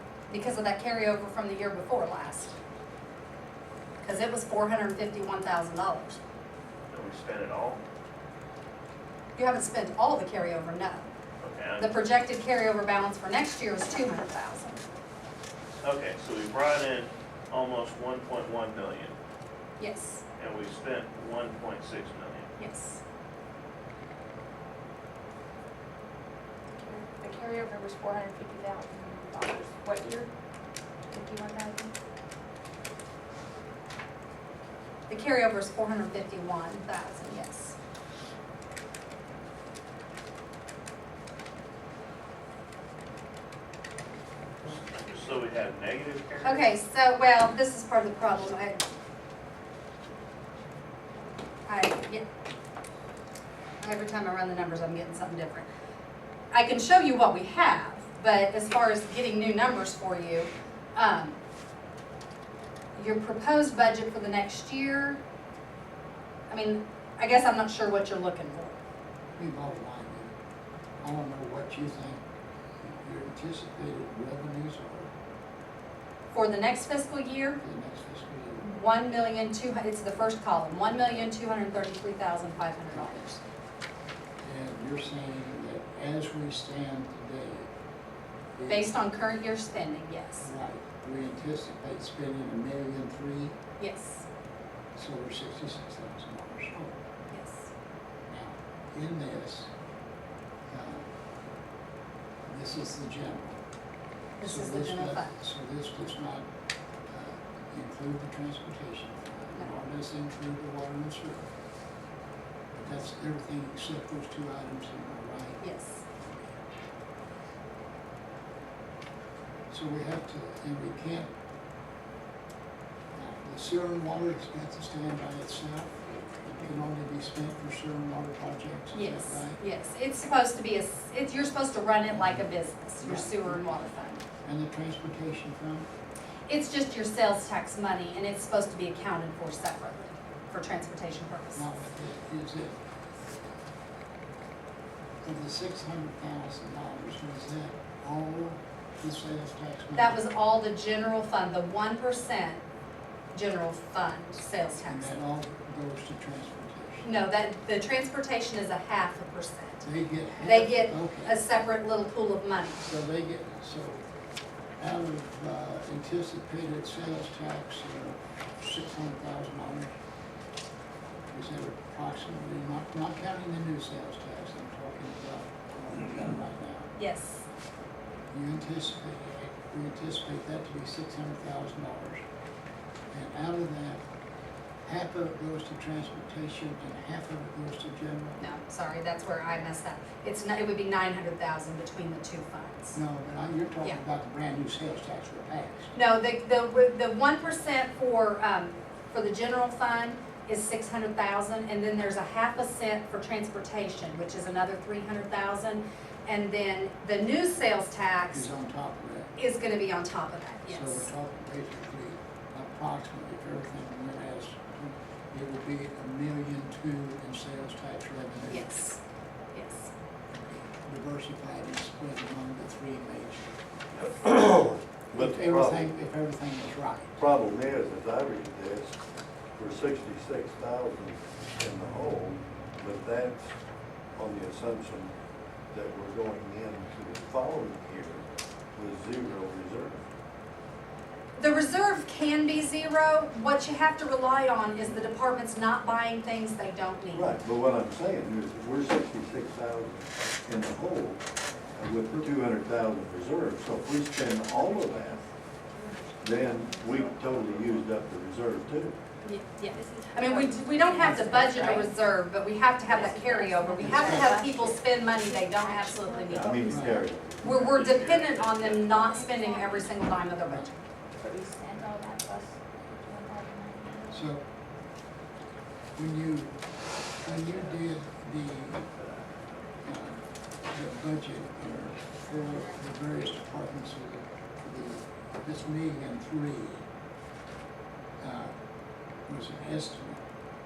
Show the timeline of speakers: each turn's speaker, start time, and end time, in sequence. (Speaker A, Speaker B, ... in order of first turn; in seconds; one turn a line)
Speaker A: 0.3-2.6
Speaker A: 4.0-6.2
Speaker B: 6.9-7.8
Speaker A: 9.4-11.1
Speaker B: 11.4-11.9
Speaker A: 11.8-14.8
Speaker B: 15.8-19.1
Speaker A: 19.8-20.2
Speaker B: 20.4-22.5
Speaker A: 22.6-23.0
Speaker C: 26.8-30.3
Speaker C: 31.1-31.9
Speaker A: 35.1-37.8
Speaker B: 44.7-46.6
Speaker A: 46.4-48.8
Speaker A: 51.7-52.2
Speaker A: 53.8-55.7
Speaker A: 56.5-61.4
Speaker A: 63.0-65.2
Speaker A: 66.5-68.8
Speaker D: 69.4-70.3
Speaker D: 71.0-72.2
Speaker D: 72.8-75.1
Speaker A: 76.3-77.6
Speaker D: 77.6-78.7
Speaker A: 78.6-83.4
Speaker D: 82.9-83.2
Speaker D: 84.4-87.7
Speaker D: 88.6-88.9
Speaker A: 88.7-90.5
Speaker D: 90.4-93.6
Speaker A: 93.8-94.3
Speaker D: 95.0-97.0
Speaker A: 97.3-97.7
Speaker D: 98.3-99.7
Speaker D: 100.7-101.1
Speaker D: 102.5-103.6
Speaker A: 104.4-105.3
Speaker D: 104.4-106.5
Speaker D: 107.1-111.5
Speaker A: 109.5-109.8
Speaker D: 112.7-115.7
Speaker A: 115.6-116.0
Speaker D: 119.7-121.3
Speaker D: 123.2-129.6
Speaker A: 128.9-134.2
Speaker D: 132.1-132.4
Speaker D: 133.0-133.9
Speaker D: 134.4-135.9
Speaker A: 136.5-141.7
Speaker D: 141.6-142.8
Speaker D: 145.2-150.2
Speaker A: 150.0-152.6
Speaker A: 153.3-155.2
Speaker D: 154.8-157.1
Speaker A: 157.0-159.8
Speaker D: 159.8-161.4
Speaker A: 160.4-162.8
Speaker D: 162.8-164.0
Speaker D: 164.8-169.9
Speaker D: 171.3-176.9
Speaker A: 176.9-177.4
Speaker D: 178.3-182.2
Speaker D: 183.1-184.0
Speaker D: 184.8-188.5
Speaker A: 188.4-193.0
Speaker D: 192.9-195.9
Speaker A: 195.9-208.5
Speaker D: 208.3-209.3
Speaker A: 209.4-211.1
Speaker D: 210.7-218.7
Speaker A: 218.5-219.0
Speaker A: 219.5-219.9
Speaker D: 220.8-223.6
Speaker E: 223.9-225.9
Speaker D: 225.1-227.2
Speaker E: 227.2-229.0
Speaker E: 229.6-233.5
Speaker E: 234.2-235.2
Speaker E: 235.7-238.2
Speaker E: 238.8-240.0
Speaker A: 241.4-247.4
Speaker E: 247.1-255.2
Speaker C: 254.4-257.9
Speaker E: 256.2-259.0
Speaker A: 259.2-266.6
Speaker C: 259.6-262.0
Speaker D: 261.0-261.8
Speaker C: 262.9-267.1
Speaker D: 263.8-264.3
Speaker E: 266.3-267.9
Speaker D: 266.7-267.0
Speaker B: 267.4-268.9
Speaker A: 267.4-270.7
Speaker C: 268.8-270.1
Speaker D: 270.4-270.7
Speaker C: 271.2-274.3
Speaker D: 274.1-274.4
Speaker D: 276.0-276.6
Speaker D: 277.2-278.9
Speaker B: 277.5-277.8
Speaker D: 279.8-286.8
Speaker D: 288.2-288.5
Speaker D: 289.3-290.2